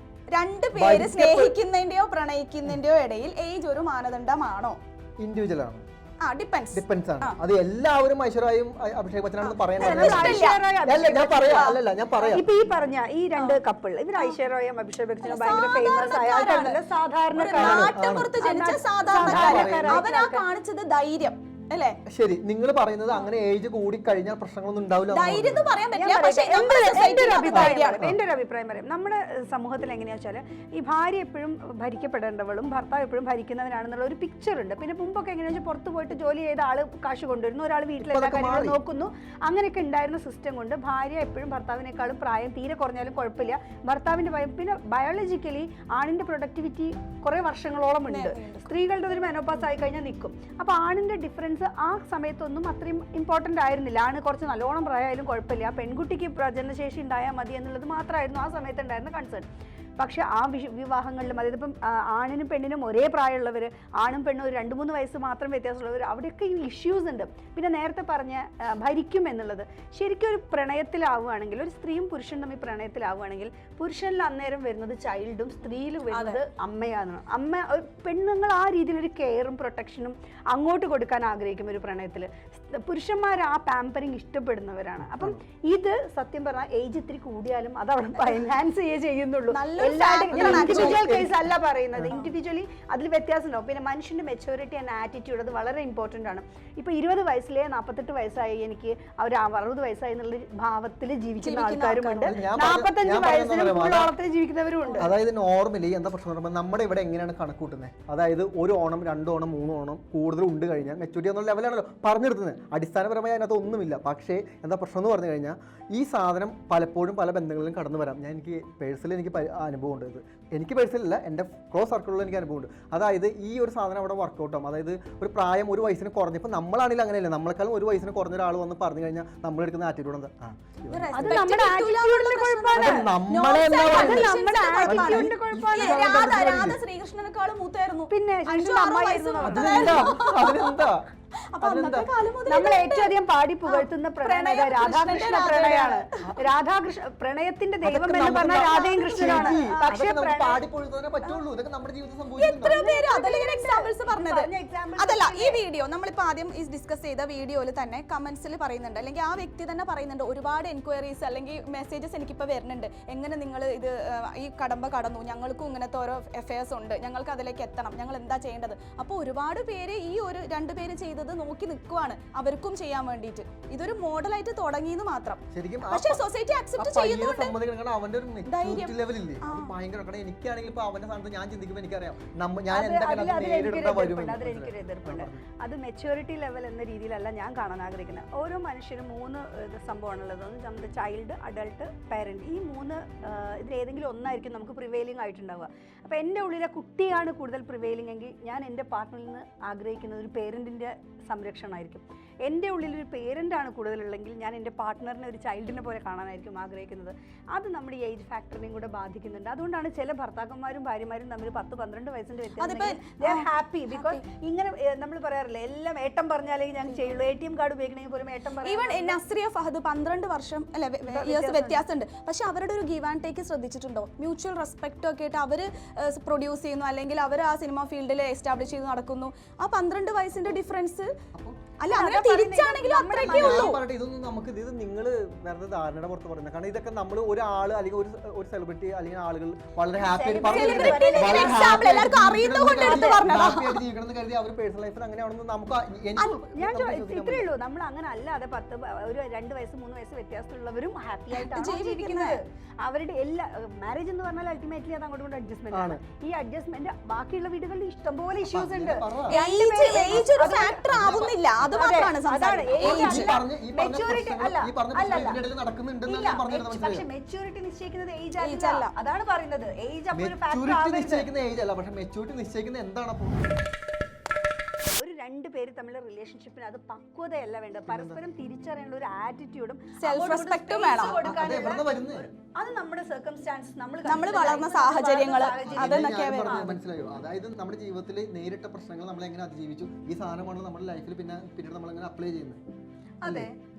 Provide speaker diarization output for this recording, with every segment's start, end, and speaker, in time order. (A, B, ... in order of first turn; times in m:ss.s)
0:00.3-0:04.8 A
0:00.8-0:01.6 B
0:05.2-0:05.8 B
0:06.2-0:07.4 A
0:06.7-0:12.4 B
0:09.4-0:10.6 A
0:09.8-0:11.8 C
0:12.3-0:20.4 C
0:15.2-0:16.8 A
0:17.3-0:22.0 A
0:17.5-0:18.3 B
0:19.2-0:20.0 B
0:22.1-0:25.7 B
0:25.1-0:28.0 A
0:25.9-0:59.4 C
0:27.5-0:28.2 B
0:38.0-0:38.8 B
0:48.1-0:48.7 A
1:00.0-1:45.1 C
1:16.1-1:16.4 A
1:29.5-1:31.1 A
1:30.3-1:31.4 B
1:41.4-1:42.3 A
1:42.2-1:44.1 B
1:44.8-1:45.1 A
1:45.0-2:11.5 B
2:10.9-2:20.7 A
2:11.1-2:13.1 C
2:12.7-2:16.8 B
2:13.8-2:16.3 C
2:18.1-2:20.1 C
2:19.4-2:21.0 B
2:21.5-2:23.1 A
2:21.6-2:22.1 B
2:22.5-2:30.6 C
2:23.6-2:26.2 A
2:27.8-2:32.8 B
2:29.0-2:30.1 A
2:32.4-2:34.5 A
2:32.6-2:35.6 C
2:35.0-2:57.5 A
2:55.5-2:56.2 B
2:56.8-3:05.4 B
2:58.4-2:59.7 A
3:02.7-3:39.2 C
3:32.6-3:34.2 A
3:38.6-3:51.1 A
3:41.0-3:41.8 C
3:51.8-3:53.8 A
3:51.9-3:53.8 C
3:53.2-4:07.5 B
4:00.0-4:01.8 C
4:00.4-4:03.8 A
4:02.8-4:03.2 C
4:06.2-4:20.9 C
4:11.3-4:12.4 A
4:15.7-4:16.0 B
4:18.4-4:19.4 B
4:19.3-4:23.3 A
4:20.1-4:20.4 B
4:20.9-4:21.8 B
4:21.7-4:25.4 C
4:22.7-4:27.0 B
4:26.0-4:31.3 C
4:28.4-4:28.9 A
4:30.1-4:33.6 B
4:35.0-4:46.8 C
4:37.9-4:38.2 B
4:40.0-4:41.2 A
4:41.1-4:42.3 B
4:44.0-4:46.6 A
4:45.7-4:52.6 B
4:53.2-4:53.5 C
4:53.2-4:53.5 B